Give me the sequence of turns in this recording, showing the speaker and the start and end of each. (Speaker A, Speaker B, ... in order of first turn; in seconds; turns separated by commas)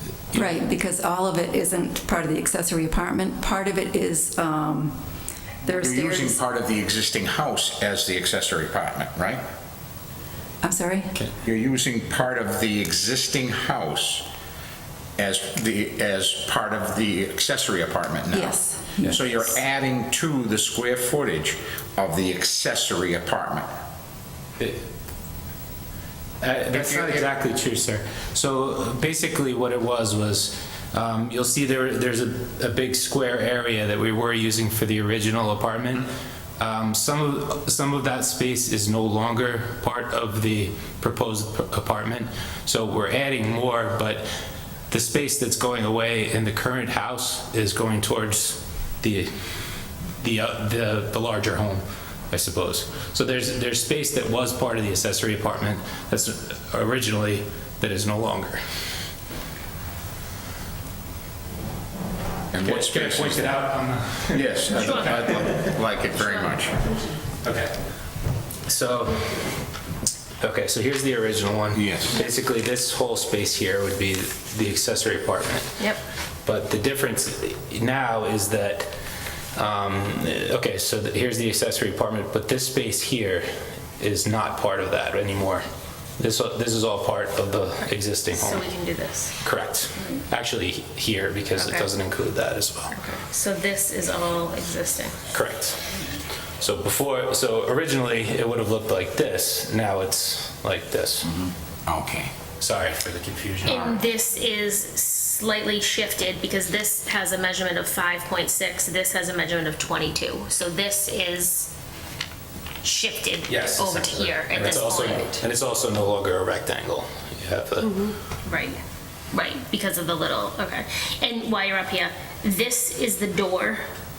Speaker A: 0.3-5.0, Speaker A: 5.6-6.4, Speaker B: 5.7-9.4, Speaker A: 10.6-11.2, Speaker B: 11.4-14.3, Speaker B: 15.2-23.7, Speaker A: 18.3-19.4, Speaker C: 26.4-36.1, Speaker C: 36.6-44.3, Speaker C: 44.9-49.3, Speaker C: 50.2-58.6, Speaker B: 62.5-63.5, Speaker C: 62.6-65.8, Speaker B: 64.3-66.8, Speaker C: 67.4-67.7, Speaker C: 68.7-69.3, Speaker C: 70.4-75.9, Speaker B: 71.7-72.2, Speaker C: 76.5-79.0, Speaker C: 79.6-83.5, Speaker C: 84.0-85.6, Speaker C: 86.2-88.7, Speaker D: 88.3-89.3, Speaker C: 89.4-92.9, Speaker D: 91.6-91.9, Speaker D: 92.9-95.2, Speaker C: 95.3-95.8, Speaker C: 96.6-101.4, Speaker B: 101.4-102.3, Speaker C: 102.6-103.9, Speaker D: 103.6-111.7, Speaker D: 112.8-115.3, Speaker C: 113.5-117.9, Speaker A: 114.6-115.3, Speaker D: 117.8-118.8, Speaker D: 119.3-123.8